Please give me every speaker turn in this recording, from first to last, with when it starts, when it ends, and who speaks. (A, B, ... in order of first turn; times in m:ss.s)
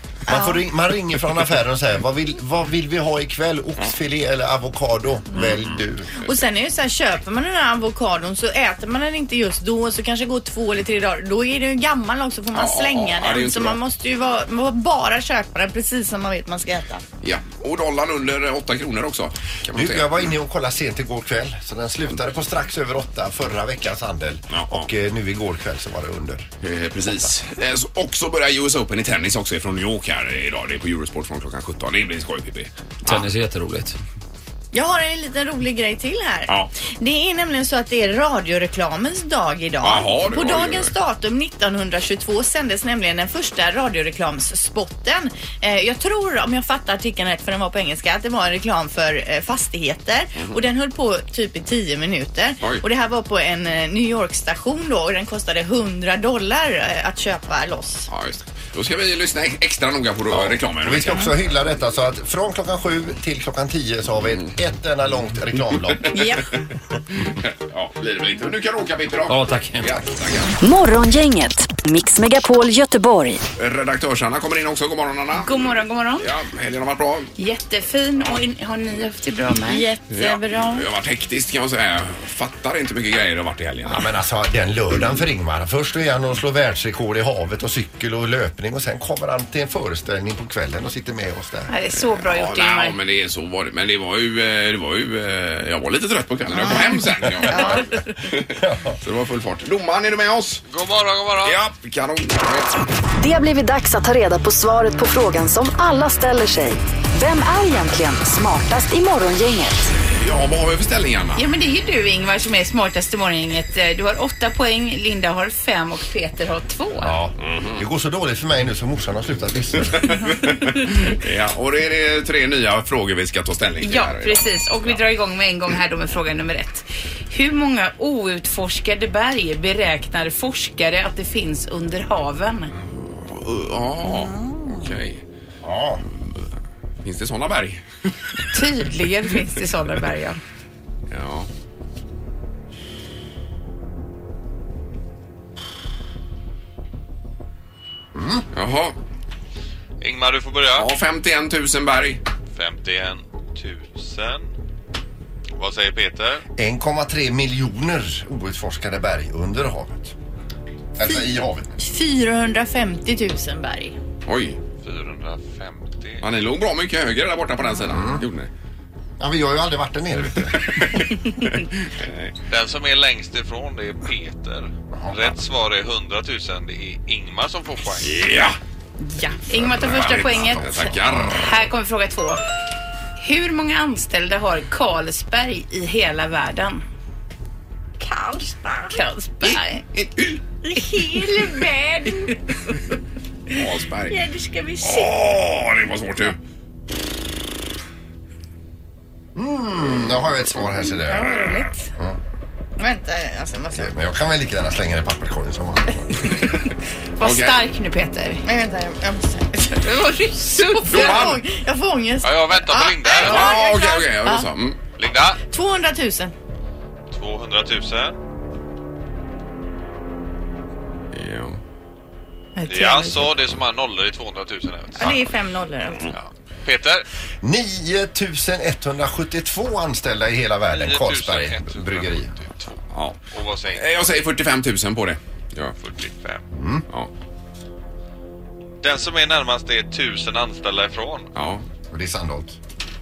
0:00.3-0:00.6 A
0:00.3-0:06.2 B
0:05.4-0:05.7 C
0:06.2-0:17.0 A
0:12.5-0:13.8 C
0:17.2-0:20.3 C
0:19.7-0:26.5 B
0:24.5-0:24.9 C
0:26.6-0:33.4 C
0:34.7-0:58.1 A
0:39.8-0:40.9 C
0:58.1-1:01.3 C
1:00.3-1:06.2 B
1:05.9-1:06.3 C
1:07.2-1:10.5 C
1:09.3-1:10.0 B
1:10.6-1:13.4 D
1:13.6-1:17.3 C
1:15.3-1:16.3 E
1:17.4-1:19.9 E
1:19.7-1:20.9 A
1:20.1-1:24.1 C
1:23.8-1:31.7 B
1:31.7-1:33.0 E
1:31.9-1:40.6 C
1:36.6-1:36.9 A
1:37.4-1:37.8 B
1:37.5-1:37.8 A
1:38.6-1:39.0 B
1:40.7-1:41.6 F
1:41.4-1:42.8 C
1:43.2-1:49.9 D
1:50.1-1:51.4 C
1:51.3-1:57.1 E
1:57.0-2:00.3 B
1:57.4-1:57.8 C
2:00.1-2:05.0 C
2:03.8-2:12.7 E
2:12.8-2:15.2 C
2:15.6-2:16.0 B
2:16.1-2:16.4 C
2:17.0-2:18.4 C
2:18.5-2:20.4 E
2:21.1-2:21.5 C
2:28.1-2:28.4 B
2:28.5-2:28.9 C
2:30.0-2:30.9 F
2:30.7-2:32.2 C
2:32.5-2:34.5 F
2:35.5-2:36.4 F
2:36.6-2:40.1 B
2:41.0-2:41.8 B
2:41.8-2:44.0 A
2:44.2-2:44.6 C
2:44.8-2:46.2 F
2:46.2-2:48.5 C
2:47.9-2:48.2 B
2:49.2-2:50.6 B
2:50.5-2:52.3 C
2:52.5-2:58.2 F
2:54.9-2:55.4 B
2:58.0-2:58.6 C
2:59.0-3:02.4 E
2:59.6-3:01.5 C
2:59.8-3:01.3 B
3:03.2-3:06.8 E
3:08.0-3:09.0 A
3:08.9-3:09.8 E
3:09.9-3:10.4 C
3:10.6-3:12.4 A
3:11.1-3:11.7 E
3:13.5-3:14.2 C
3:14.1-3:15.1 A
3:14.8-3:16.4 C
3:19.3-3:21.4 B
3:21.1-3:21.8 A
3:22.8-3:23.9 A
3:23.7-3:26.0 B
3:26.2-3:26.6 C
3:27.2-3:28.4 E
3:27.2-3:27.6 C
3:28.4-3:34.5 A
3:29.8-3:31.3 E
3:30.9-3:31.4 C
3:32.2-3:33.6 F
3:33.2-3:34.8 C
3:34.9-3:35.4 F
3:35.4-3:36.3 A
3:37.1-3:38.2 F
3:41.1-3:41.6 C
3:42.6-3:43.3 A
3:42.7-3:45.2 F
3:45.0-3:46.1 A
3:46.1-3:47.0 F
3:47.4-3:52.3 B
3:50.7-3:53.8 F
3:52.9-3:53.2 C
3:53.7-3:55.8 C
3:55.8-3:56.4 F
3:56.5-3:56.8 B
3:58.8-4:01.3 F
4:01.3-4:01.6 C
4:01.9-4:02.6 B